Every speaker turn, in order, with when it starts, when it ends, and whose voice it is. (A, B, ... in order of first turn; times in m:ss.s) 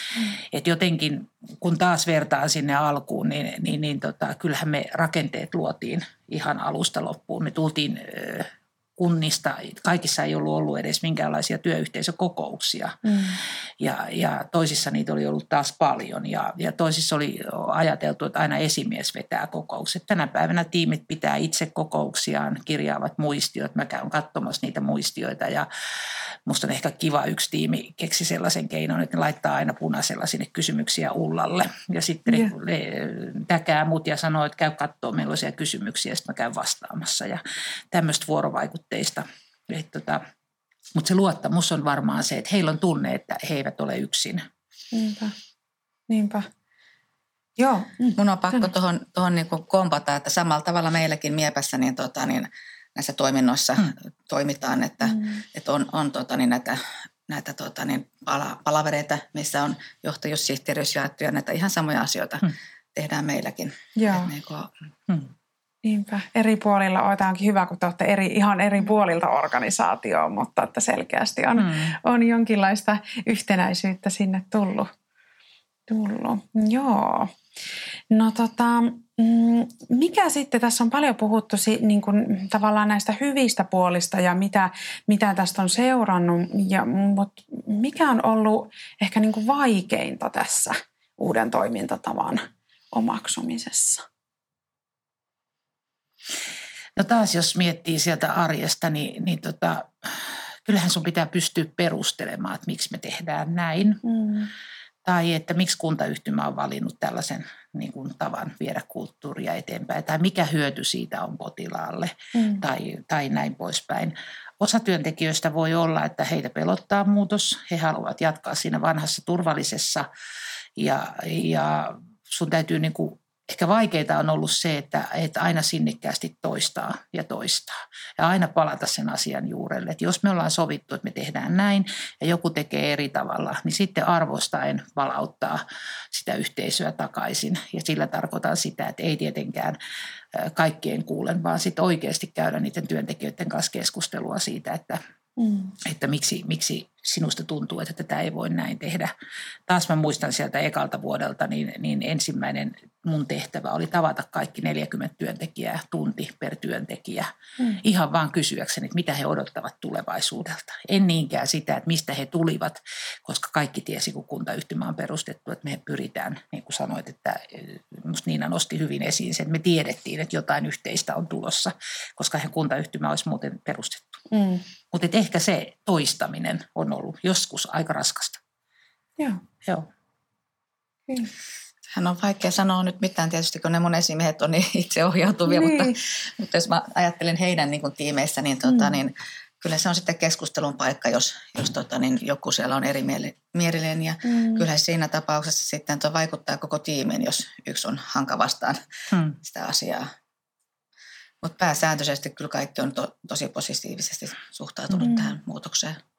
0:00.3-0:13.0 A
0:13.0-0:13.4 B
0:13.8-0:25.7 A
0:26.5-0:40.2 A
0:41.0-0:44.4 A
0:44.9-0:45.3 B
0:46.1-0:46.5 B
0:47.6-0:48.7 B
0:48.2-1:04.7 C
0:55.0-0:55.4 B
1:04.0-1:04.3 B
1:05.8-1:14.9 B
1:11.6-1:12.0 A
1:15.9-1:17.3 B
1:18.1-1:34.0 B
1:37.0-1:44.0 A
1:44.0-1:44.5 B
1:45.0-2:00.1 A
1:52.4-1:52.6 B
2:00.8-2:19.8 A
2:20.3-2:25.0 A
2:25.4-2:25.8 B
2:25.8-2:29.1 A
2:29.7-2:54.2 A
2:54.3-2:54.6 B
2:54.9-2:58.4 A
3:01.9-3:18.8 C
3:05.5-3:06.0 B
3:08.7-3:09.0 B
3:14.3-3:14.6 B
3:19.1-3:19.4 A
3:19.4-3:20.1 C
3:21.4-3:26.0 C
3:25.0-3:25.3 B